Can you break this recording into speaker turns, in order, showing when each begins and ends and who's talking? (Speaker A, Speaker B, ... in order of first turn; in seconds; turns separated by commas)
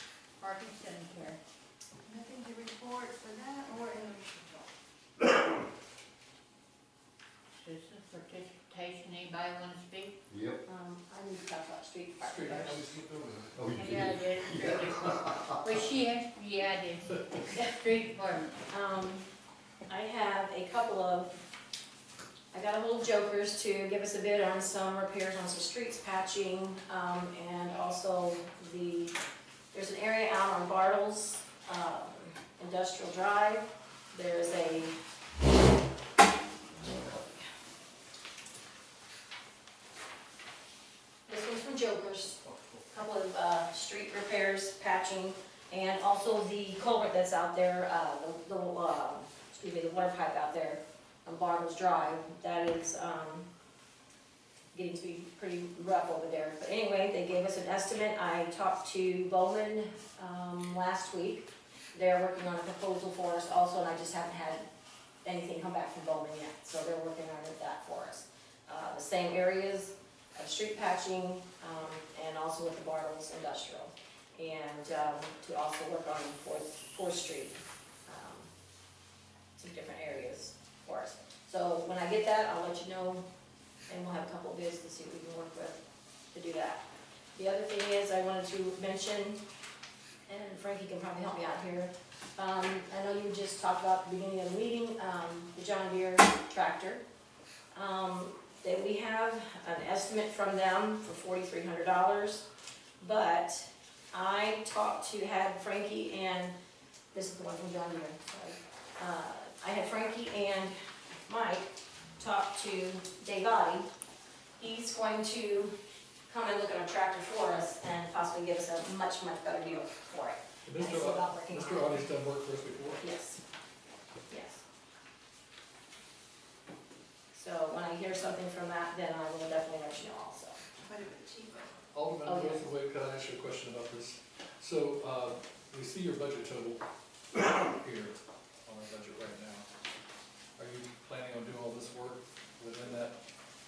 Speaker A: 0.4-1.4, Speaker B: 2.1-4.2, Speaker A: 7.5-10.2, Speaker C: 10.3-10.6, Speaker D: 10.7-12.8, Speaker E: 12.2-13.5, Speaker C: 13.5-15.7, Speaker A: 13.8-18.5, Speaker D: 18.7-19.3, Speaker D: 19.9-21.3, Speaker D: 22.5-29.2, Speaker D: 29.7-34.9, Speaker D: 36.8-37.5, Speaker D: 41.3-53.5, Speaker D: 54.7-64.7, Speaker D: 65.2-78.5, Speaker D: 79.6-83.3, Speaker D: 83.9-85.8, Speaker D: 86.3-86.8, Speaker D: 87.3-89.4, Speaker D: 90.3-97.0, Speaker D: 97.7-102.5, Speaker D: 103.0-106.5, Speaker D: 107.1-110.7, Speaker D: 111.3-113.9, Speaker D: 114.6-115.7, Speaker D: 116.3-122.0, Speaker E: 120.7-123.0, Speaker D: 123.0-123.4, Speaker D: 124.3-124.6, Speaker D: 127.3-130.6, Speaker B: 130.8-131.7, Speaker E: 131.9-136.8, Speaker D: 132.2-132.7, Speaker E: 137.3-139.7, Speaker E: 140.6-143.2